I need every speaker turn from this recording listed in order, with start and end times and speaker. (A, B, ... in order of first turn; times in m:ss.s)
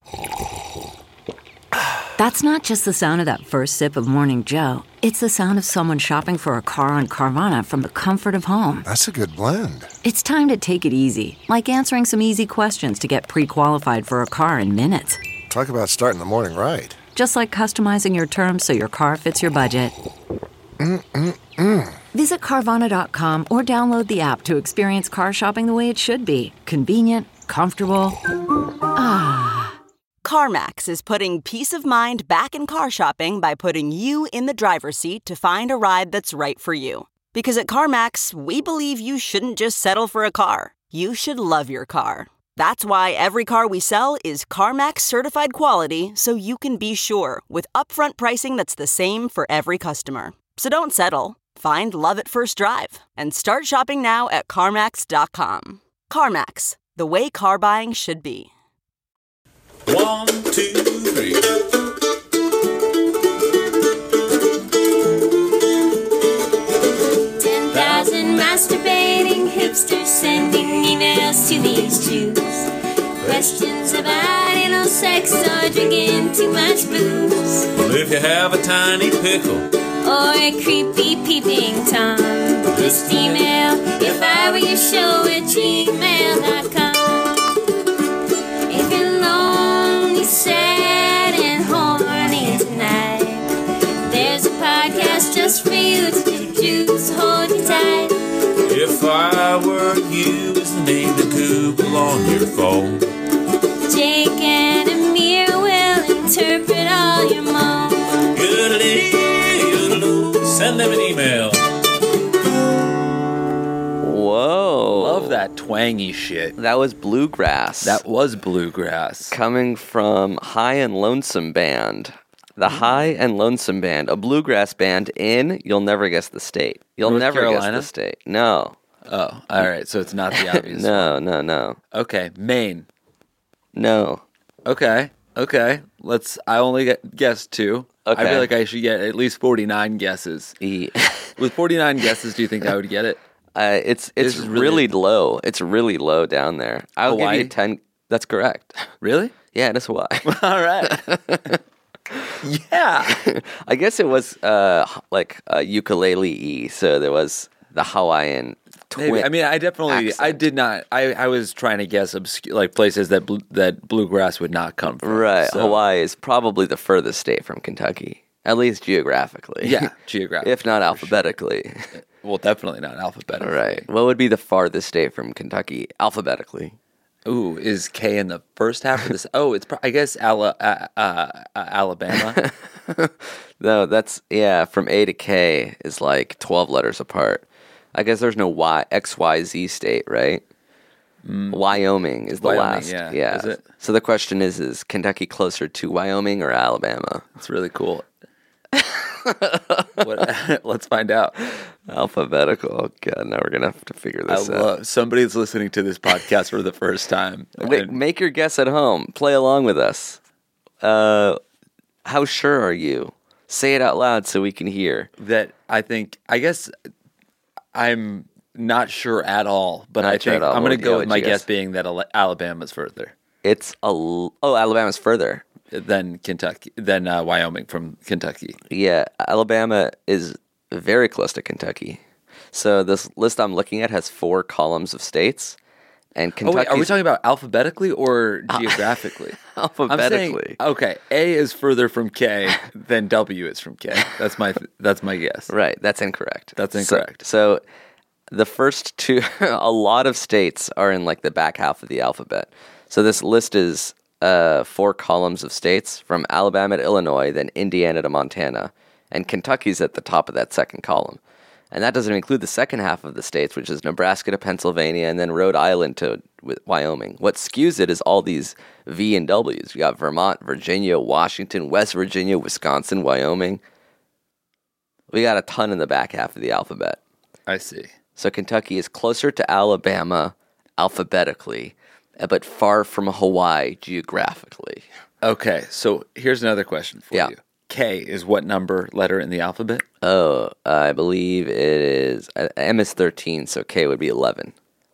0:02.2-0:08.9 A
0:08.8-0:09.9 B
0:10.0-0:15.2 A
0:15.5-0:17.0 B
0:17.2-0:20.0 A
0:20.8-0:22.0 B
0:22.1-0:28.2 A
0:28.9-0:29.8 A
0:30.2-0:58.5 C
0:59.9-1:01.6 D
1:07.4-1:12.7 E
1:07.7-1:08.1 D
1:13.2-1:13.5 D
1:13.2-1:17.7 E
1:17.8-1:19.7 D
1:20.0-1:27.4 E
1:22.7-1:24.7 D
1:28.7-1:33.5 E
1:34.0-1:38.2 E
1:38.6-1:43.0 D
1:43.9-1:48.3 E
1:48.3-1:51.6 D
1:54.0-1:55.4 F
1:55.0-1:56.6 G
1:56.6-1:58.0 F
1:57.8-1:59.4 G
1:59.3-2:08.8 F
2:07.0-2:07.9 G
2:09.1-2:11.1 G
2:10.3-2:11.8 F
2:11.9-2:12.9 G
2:13.8-2:14.2 F
2:14.6-2:20.6 G
2:18.0-2:18.5 F
2:20.6-2:21.4 F
2:21.4-2:23.2 G
2:23.6-2:28.9 F
2:24.2-2:24.9 G
2:27.0-2:27.5 G
2:29.0-2:29.4 G
2:29.5-2:31.6 F
2:30.2-2:31.0 G
2:32.4-2:33.2 G
2:33.1-2:39.3 F
2:38.9-2:45.8 G
2:39.9-2:40.4 F
2:45.0-2:49.9 F
2:49.6-2:51.2 G
2:50.4-2:51.9 F
2:52.2-2:53.9 G
2:53.4-2:56.8 F
2:57.2-3:02.4 G
3:02.4-3:10.4 F
3:11.2-3:11.6 G
3:11.5-3:17.2 F
3:12.4-3:13.6 G
3:17.4-3:18.1 G
3:18.7-3:20.0 F
3:20.0-3:21.4 G
3:21.5-3:24.7 F
3:24.3-3:28.0 G
3:27.6-3:30.2 F
3:30.8-3:31.4 F
3:32.0-3:35.1 F
3:35.2-3:36.7 G
3:37.7-3:43.1 G
3:40.0-3:41.4 F
3:43.4-3:45.4 F
3:45.7-3:48.6 G
3:48.7-3:52.0 F
3:52.5-3:55.6 F
3:56.2-3:57.0 F
3:56.4-4:05.5 G
3:58.5-3:58.8 F
3:59.5-4:00.6 F
4:05.5-4:07.6 F
4:06.6-4:07.2 G
4:08.3-4:21.2 F
4:21.7-4:33.6 F
4:35.1-4:37.0 F
4:37.5-4:37.9 G
4:38.2-4:44.9 F
4:45.2-4:49.8 G
4:50.0-4:54.5 F